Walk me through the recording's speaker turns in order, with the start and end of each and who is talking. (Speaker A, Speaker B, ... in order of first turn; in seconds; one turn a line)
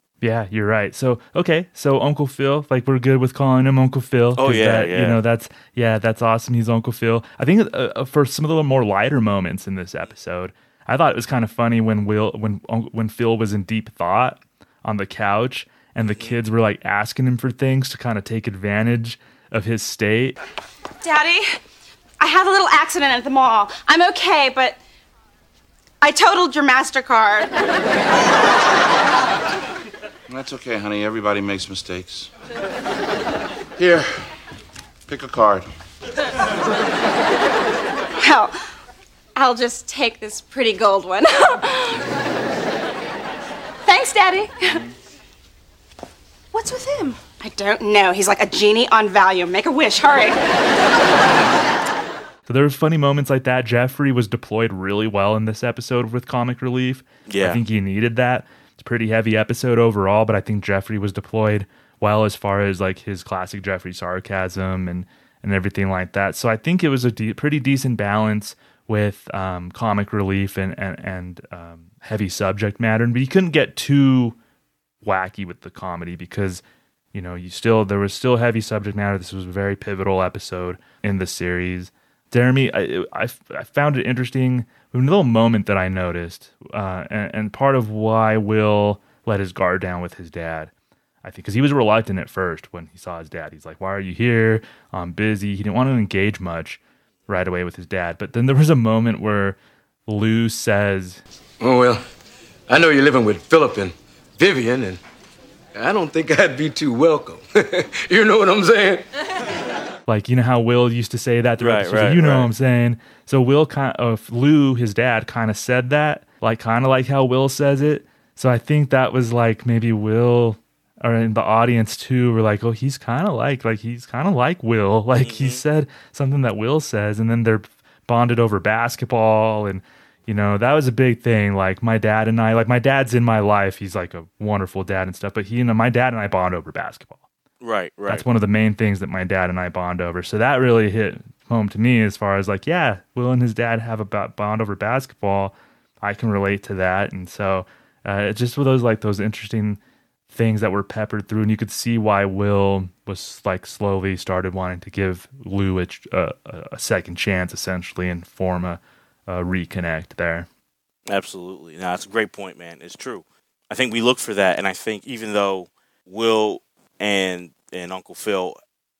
Speaker A: 0.2-20.4
Speaker B: 4.3-5.2
Speaker B: 16.0-16.4
Speaker C: 21.0-21.5
Speaker C: 22.2-24.8
Speaker C: 26.0-27.6
Speaker D: 30.3-32.3
Speaker D: 33.8-34.1
Speaker D: 35.1-35.7
Speaker C: 38.2-38.5
Speaker C: 39.4-42.0
Speaker C: 43.8-44.8
Speaker C: 46.5-50.4
Speaker A: 52.5-74.4
Speaker B: 57.3-57.6
Speaker A: 75.0-90.7
Speaker A: 91.2-101.2
Speaker E: 101.6-102.0
Speaker E: 102.7-105.0
Speaker E: 105.7-109.1
Speaker A: 110.1-137.2
Speaker B: 111.6-112.5
Speaker B: 125.2-125.6
Speaker B: 137.6-138.2
Speaker A: 138.1-160.5
Speaker B: 161.1-168.6